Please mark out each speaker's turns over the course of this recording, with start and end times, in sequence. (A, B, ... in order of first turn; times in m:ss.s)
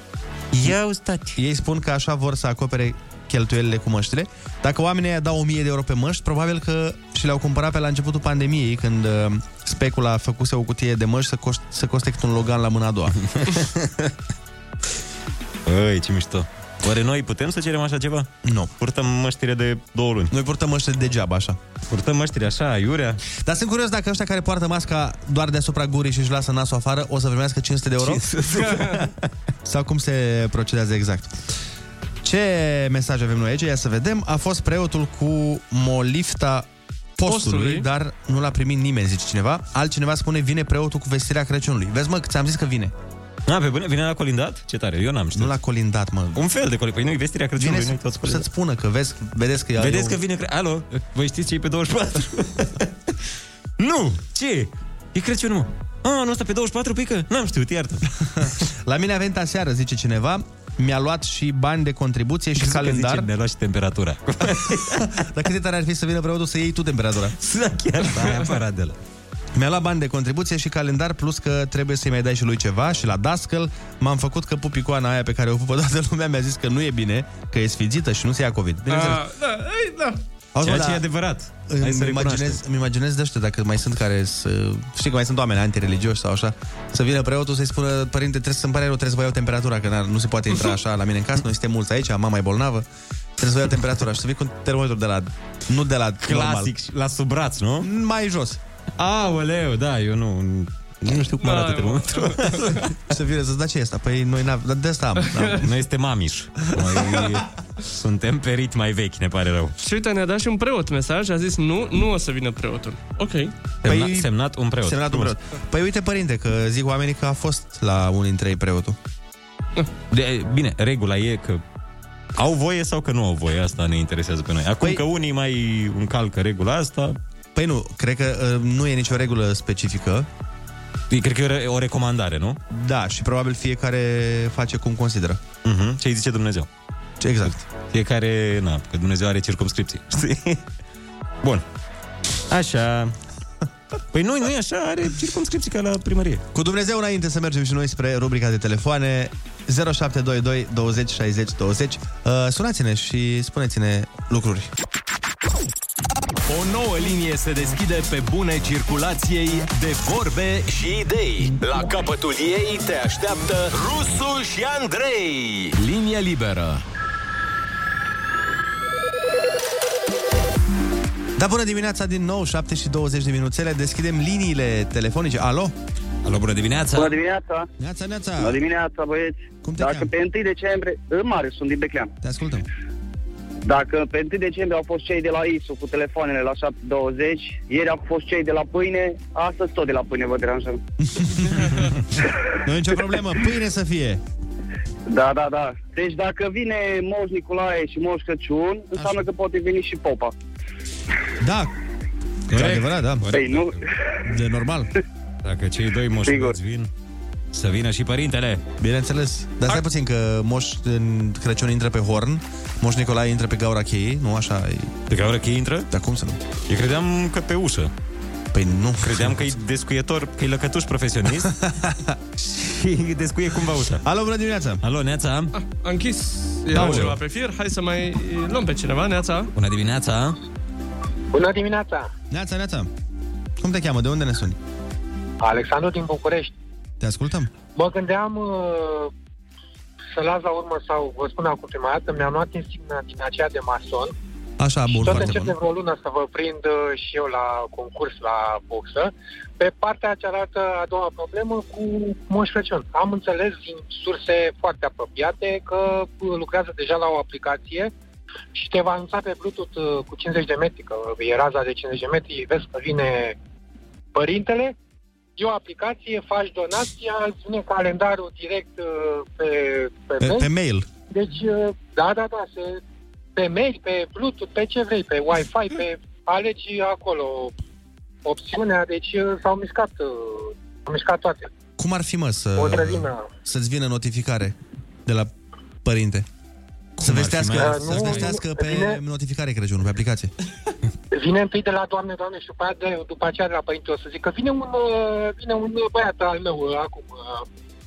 0:00.5-0:01.4 A
0:01.4-0:13.2 B
0:13.3-0:14.1 A
0:15.6-0:20.3 A
0:18.4-0:18.7 B
0:20.3-0:21.6 B
0:21.9-0:23.2 A
0:23.4-0:28.2 B
0:28.0-0:29.1 A
0:28.6-0:29.0 C
0:29.6-0:31.4 B
0:32.2-0:42.9 B
0:37.2-0:37.8 C
0:43.5-0:45.5 A
0:45.3-0:46.4 B
0:46.3-0:48.5 A
0:47.6-0:50.2 B
0:49.8-0:53.1 A
0:53.8-0:58.0 A
0:58.4-1:03.3 B
1:02.6-1:05.2 A
1:04.6-1:07.4 B
1:07.4-1:09.0 A
1:09.6-1:19.2 B
1:18.9-1:20.2 C
1:20.5-1:21.0 B
1:20.6-1:22.6 A
1:21.7-1:32.8 B
1:33.4-1:36.7 B
1:36.2-1:37.9 A
1:37.8-1:38.6 B
1:39.0-1:42.9 A
1:41.4-1:42.8 C
1:43.1-1:45.7 B
1:45.6-1:49.7 A
1:49.8-1:53.5 C
1:53.8-1:55.3 A
1:53.8-1:54.3 B
1:54.8-1:59.0 B
2:00.1-2:01.6 A
2:02.4-2:07.2 A
2:07.5-2:10.3 B
2:11.1-2:12.6 A
2:12.7-2:15.4 B
2:15.6-2:16.7 A
2:17.2-2:17.6 B
2:17.4-2:20.6 A
2:22.5-2:23.2 A
2:24.1-2:26.4 A
2:26.5-2:34.7 B
2:36.5-2:40.7 D
2:40.7-2:45.7 E
2:45.8-2:46.8 D
2:51.4-2:55.7 B
2:56.2-2:57.2 A
2:56.9-2:57.7 F
2:57.8-2:58.6 B
2:58.4-3:02.1 F
2:59.6-3:00.1 B
3:02.2-3:02.6 B
3:03.6-3:10.8 F
3:11.0-3:11.7 B
3:11.6-3:11.9 C
3:12.6-3:14.2 B
3:15.1-3:20.3 F
3:18.9-3:19.2 B
3:21.4-3:21.7 B
3:22.5-3:23.3 B
3:22.5-3:23.8 A
3:23.3-3:23.7 F
3:24.2-3:24.9 B
3:25.4-3:26.9 A
3:26.2-3:26.5 F
3:27.5-3:28.6 A
3:28.8-3:35.0 B
3:35.1-3:35.9 A
3:35.9-3:36.4 B
3:36.7-3:37.9 A
3:38.5-3:39.6 B
3:39.0-3:41.5 A
3:41.4-3:42.0 B
3:42.4-3:44.0 A
3:44.0-3:44.8 B
3:44.8-3:45.5 A
3:45.5-3:49.5 C
3:46.7-3:47.2 B
3:46.7-3:47.1 A
3:49.5-3:50.4 A
3:51.3-3:52.1 G
3:52.3-3:52.9 B
3:53.6-3:54.6 B
3:55.4-3:56.5 G
3:57.0-3:57.5 B
3:57.8-3:59.1 G
4:00.1-4:04.1 G
4:04.6-4:05.5 B
4:04.9-4:17.9 G
4:18.5-4:23.4 G
4:24.1-4:24.7 G
4:25.4-4:30.5 G
4:30.2-4:30.8 B
4:31.1-4:32.8 G
4:33.4-4:37.5 G
4:38.2-4:41.5 G
4:41.8-4:44.5 B
4:42.6-4:43.3 G
4:45.0-4:45.3 B
4:45.8-4:46.2 B
4:47.0-4:50.3 B
4:47.0-4:48.3 A
4:47.6-4:49.0 G
4:51.1-4:57.4 G